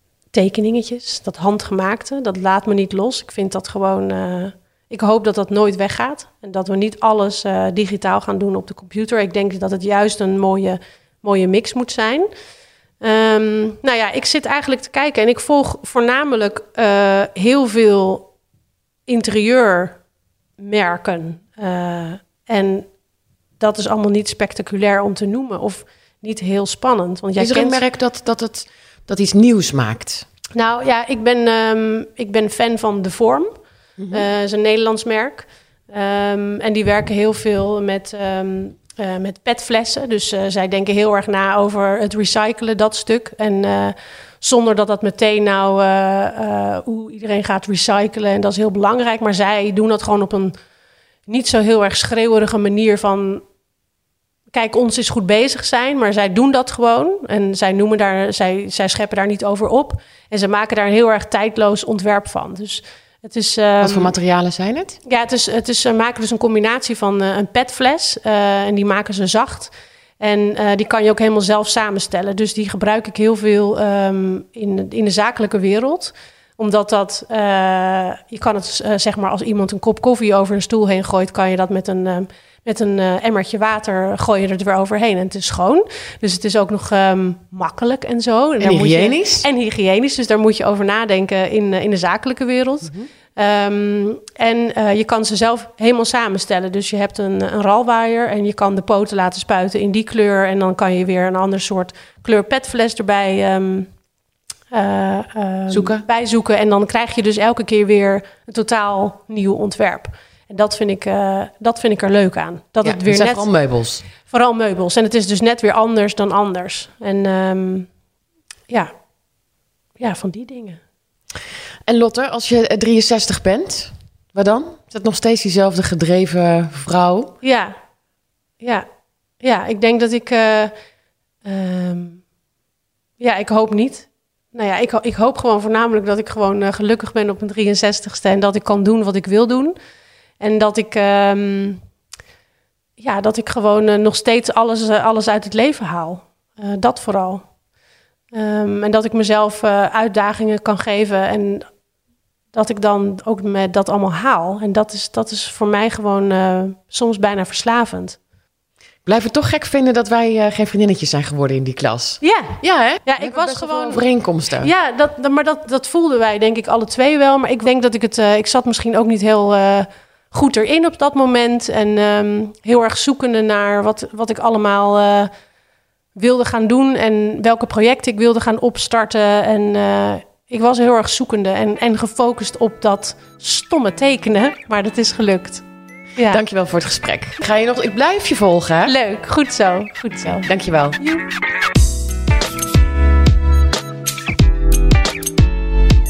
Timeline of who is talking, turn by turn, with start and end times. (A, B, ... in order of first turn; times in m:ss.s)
0:00.3-0:12.3 A
0:13.0-0:18.3 A
0:19.1-0:20.0 A
0:20.6-0:22.9 A
0:23.6-0:27.8 A
0:27.4-0:30.3 B
0:30.6-0:33.5 A
0:34.0-0:34.2 B
0:34.1-0:50.6 A
0:51.3-0:53.4 A
0:54.5-1:04.2 A
1:03.8-1:05.0 B
1:05.0-1:43.9 A
1:28.6-1:29.5 B
1:44.7-1:53.5 A
1:45.7-1:46.0 B
1:52.8-1:54.0 B
1:54.2-1:57.9 A
2:00.0-2:00.8 A
2:01.9-2:07.3 B
2:07.4-2:07.8 A
2:08.6-2:08.9 A
2:09.4-2:10.7 A
2:11.4-2:12.2 A
2:13.2-2:19.8 A
2:20.4-2:21.8 A
2:23.0-2:27.5 A
2:28.3-2:31.7 A
2:32.5-2:38.2 A
2:39.0-2:44.7 B
2:42.2-2:44.0 A
2:44.6-2:55.3 A
2:56.2-3:05.6 A
3:06.3-3:08.9 B
3:08.9-3:11.2 A
3:10.5-3:11.0 B